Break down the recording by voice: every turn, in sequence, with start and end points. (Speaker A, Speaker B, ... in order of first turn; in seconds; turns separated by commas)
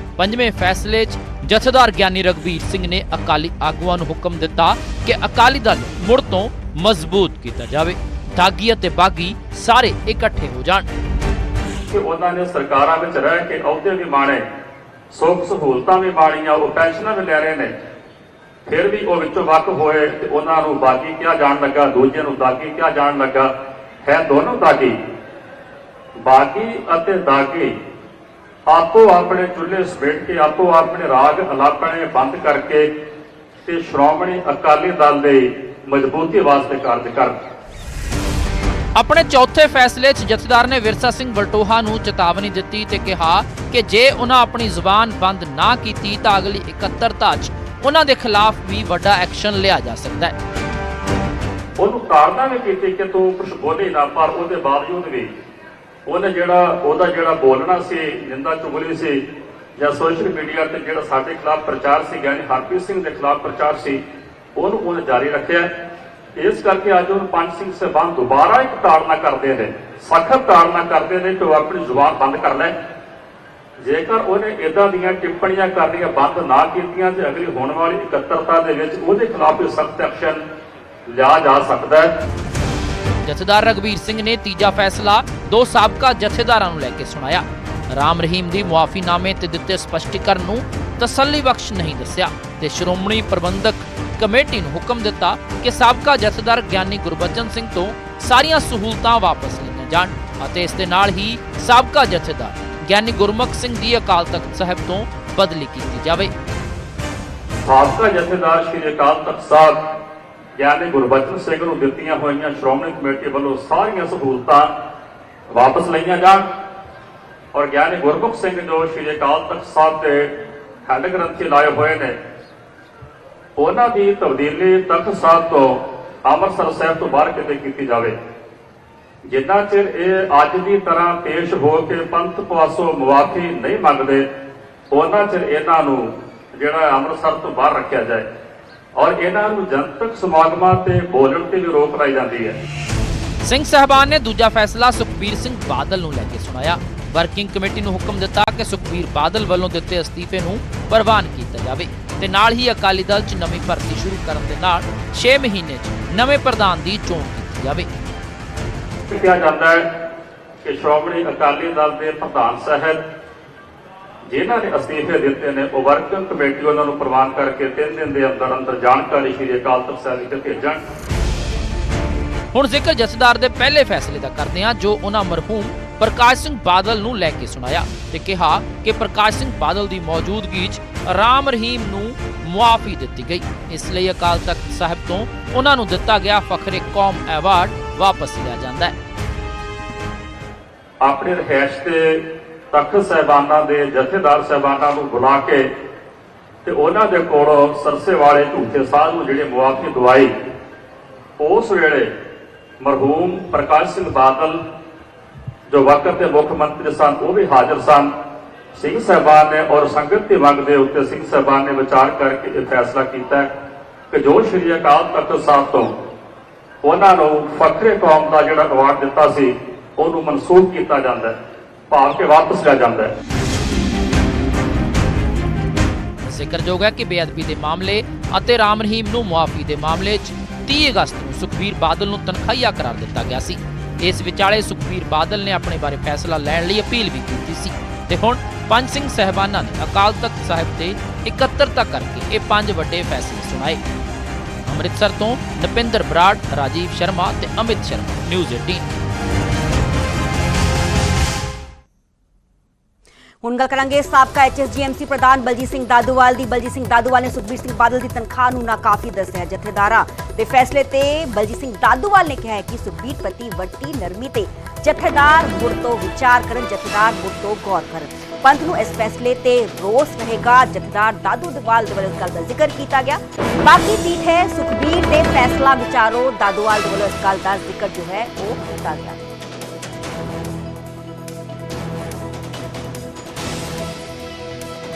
Speaker A: 0.2-10.9, Speaker B: 11.9-14.4, Speaker B: 15.1-17.7, Speaker B: 18.7-23.5, Speaker B: 24.0-25.0, Speaker B: 26.2-27.7, Speaker B: 28.7-32.9, Speaker B: 33.6-37.4, Speaker A: 39.0-50.4, Speaker B: 51.8-55.3, Speaker B: 56.1-59.2, Speaker B: 59.8-64.0, Speaker B: 64.6-65.7, Speaker B: 66.4-72.8, Speaker B: 73.8-80.4, Speaker B: 81.1-82.1, Speaker A: 83.2-106.3, Speaker B: 107.6-109.8, Speaker B: 110.6-114.7, Speaker B: 115.5-116.4, Speaker B: 117.5-122.2, Speaker B: 123.6-128.1, Speaker B: 129.3-134.2, Speaker B: 134.9-138.3, Speaker B: 139.0-142.6, Speaker A: 143.4-157.9, Speaker B: 159.1-159.9, Speaker B: 160.6-163.0, Speaker B: 164.3-170.8, Speaker A: 172.5-188.9, Speaker B: 191.0-195.7, Speaker B: 196.7-200.3, Speaker B: 201.4-202.1, Speaker B: 202.8-204.6, Speaker B: 205.7-208.1, Speaker B: 208.8-213.5, Speaker B: 214.1-215.9, Speaker B: 216.8-221.4, Speaker B: 221.9-223.1, Speaker A: 226.2-243.8, Speaker A: 244.7-248.9, Speaker C: 253.4-279.2